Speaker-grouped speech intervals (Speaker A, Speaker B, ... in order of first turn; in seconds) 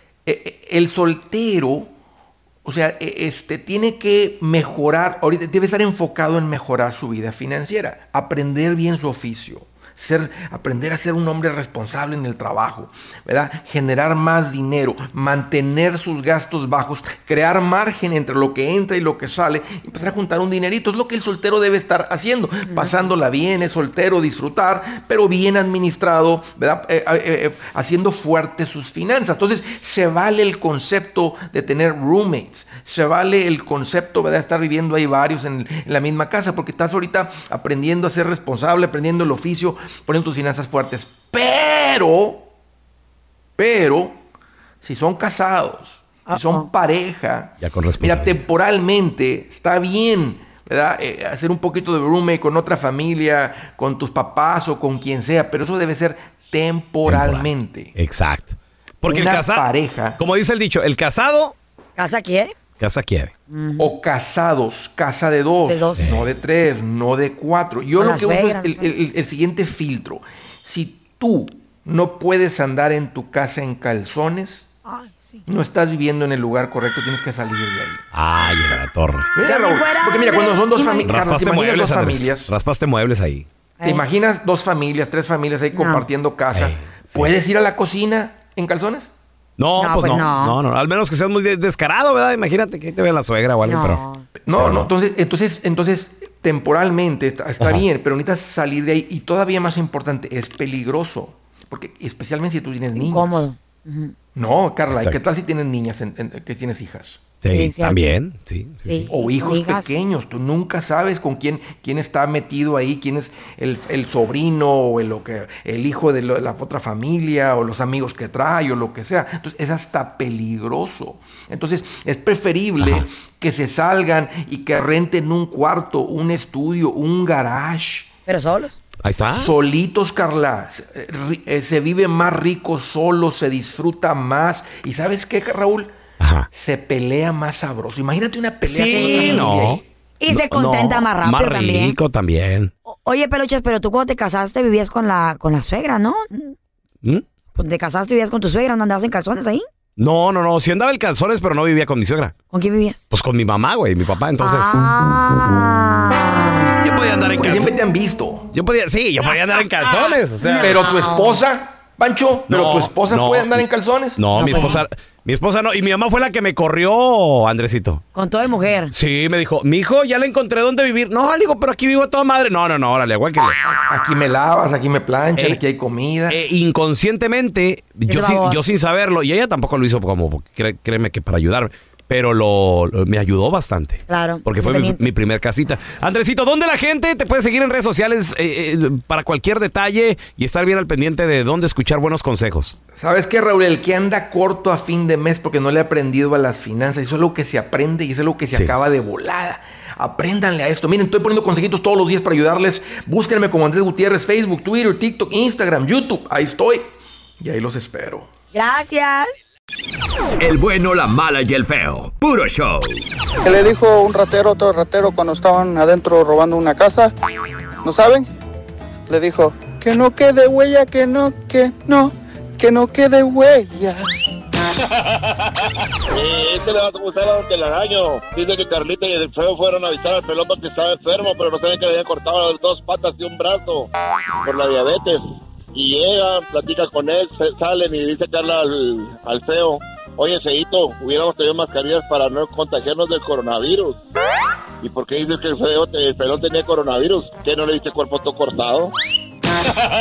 Speaker A: 0.3-1.9, 2.6-42.5, 43.6-44.2, 44.8-57.9, 59.1-60.2, 63.8-74.7, 75.5-78.0, 79.3-82.5, 83.8-89.1, 94.5-103.5, 104.3-107.2, 109.1-128.1, 129.3-135.9, 136.5-139.8, 157.4-158.5, 160.6-164.8, 173.7-176.4, 193.0-206.8, 207.4-208.3
Speaker B: 22.7-23.0, 46.3-46.7, 62.0-62.5, 63.5-63.9, 65.7-66.2, 68.0-68.9, 74.9-75.4, 79.4-81.2, 83.8-84.0, 85.7-86.1, 89.8-90.6, 93.7-94.2, 102.9-104.1, 107.5-108.1, 108.8-110.0, 128.3-128.8, 138.8-139.6, 140.2-142.0, 142.9-146.5, 147.6-149.7, 152.5-153.0, 154.4-156.7, 160.4-161.4, 164.4-164.8, 168.1-168.9, 178.1-178.6, 184.1-185.0, 208.5-209.3
Speaker C: 47.6-48.4, 57.0-61.5, 62.8-63.3, 66.0-66.3, 78.1-79.3, 81.0-83.5, 86.5-87.3, 89.6-94.0, 94.6-94.9, 97.6-97.8, 104.9-105.2, 107.4-109.1, 129.0-129.5, 136.2-136.5, 138.7-142.7, 150.0-152.3, 153.1-154.9, 156.8-157.7, 158.5-160.8, 162.5-163.7, 164.2-168.0, 168.9-173.6, 176.3-192.8
Speaker D: 210.4-212.9
Speaker E: 213.4-217.1, 217.8-218.3, 219.1-224.0
Speaker F: 226.1-233.9, 234.4-244.0, 244.8-248.9